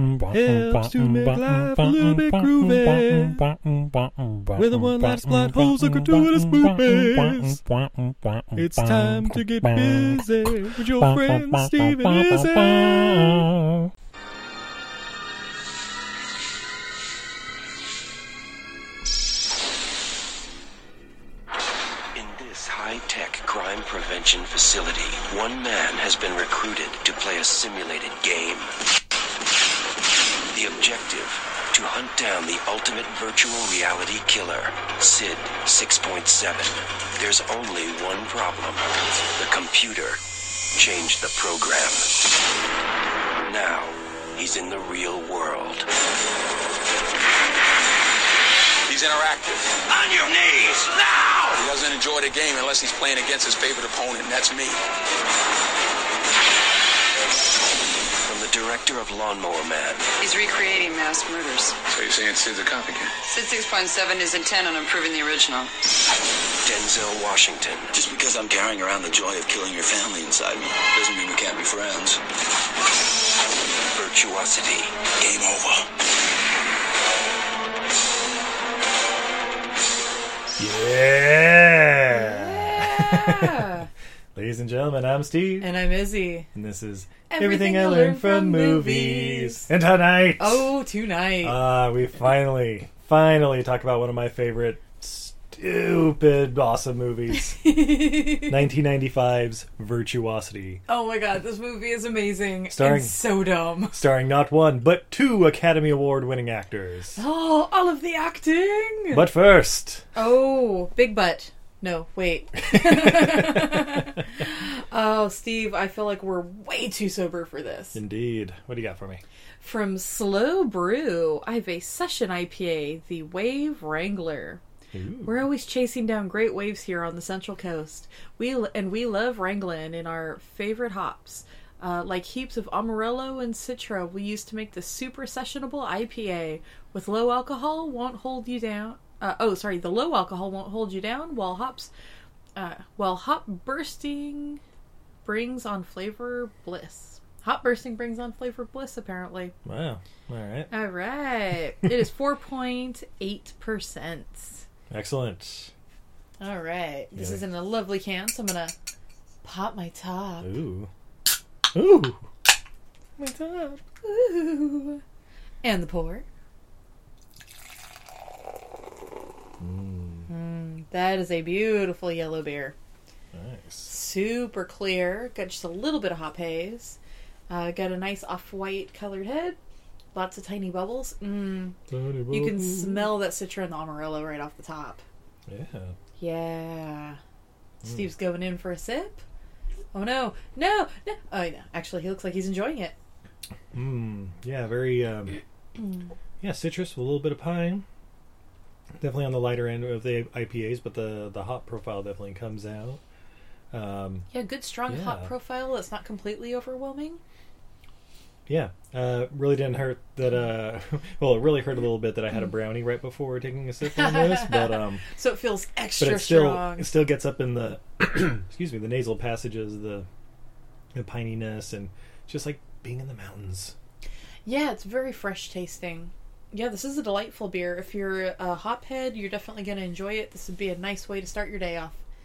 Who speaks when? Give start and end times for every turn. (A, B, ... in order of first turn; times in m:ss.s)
0:00.2-0:03.5 A
0:04.5-0:07.6 A
0:08.5-0:13.5 A
0:22.1-0:28.7 B
0:30.5-0:40.2 B
0:40.8-0:42.1 B
0:43.4-0:45.9 B
0:48.9-0:49.8 C
0:50.0-0:51.5 B
0:51.6-0:54.8 C
0:58.2-1:00.1 B
1:00.2-1:01.8 D
1:01.9-1:03.2 C
1:03.2-1:05.7 D
1:06.6-1:07.9 B
1:07.9-1:12.2 E
1:13.9-1:15.0 B
1:15.2-1:15.9 E
1:20.6-1:23.7 A
1:22.1-1:23.9 F
1:24.4-1:25.7 A
1:25.6-1:26.5 F
1:26.5-1:30.8 A
1:27.3-1:29.7 F
1:30.4-1:31.6 F
1:31.4-1:37.6 A
1:37.5-1:38.6 F
1:38.4-1:40.8 A
1:40.9-1:44.0 F
1:42.7-1:43.2 A
1:43.9-1:47.2 A
1:47.2-1:49.3 F
1:49.1-1:50.0 A
1:50.2-1:58.0 F
1:52.7-1:53.9 A
1:57.9-1:59.2 A
1:59.6-2:04.6 F
2:04.9-2:05.4 A
2:05.2-2:21.9 F
2:22.6-2:24.6 F
2:25.2-2:29.5 F
2:29.6-2:30.7 A
2:30.7-2:34.6 F
2:34.9-2:35.7 A
2:36.4-2:38.8 F
2:37.2-2:37.4 A
2:39.4-2:40.5 F
2:40.4-2:40.9 A
2:41.7-2:42.3 A
2:43.2-2:43.8 A
2:44.0-2:45.0 F
2:45.6-2:46.2 F
2:49.6-2:50.3 A
2:50.3-2:52.8 F
2:53.3-2:53.9 A
2:53.9-2:57.0 F
2:57.5-2:59.6 F
3:00.1-3:01.8 F
3:01.9-3:03.2 A
3:02.3-3:05.0 F
3:05.5-3:06.0 A
3:06.2-3:07.2 F
3:07.8-3:08.1 A
3:07.8-3:09.2 F
3:09.9-3:13.0 F
3:13.7-3:15.4 A
3:15.8-3:16.1 F
3:16.4-3:17.8 A
3:19.0-3:23.0 A
3:23.7-3:24.3 A
3:24.3-3:27.2 F
3:24.9-3:25.3 A
3:28.5-3:35.0 A
3:34.0-3:36.9 F
3:36.0-3:40.1 A
3:40.9-3:43.8 A
3:44.4-3:52.0 F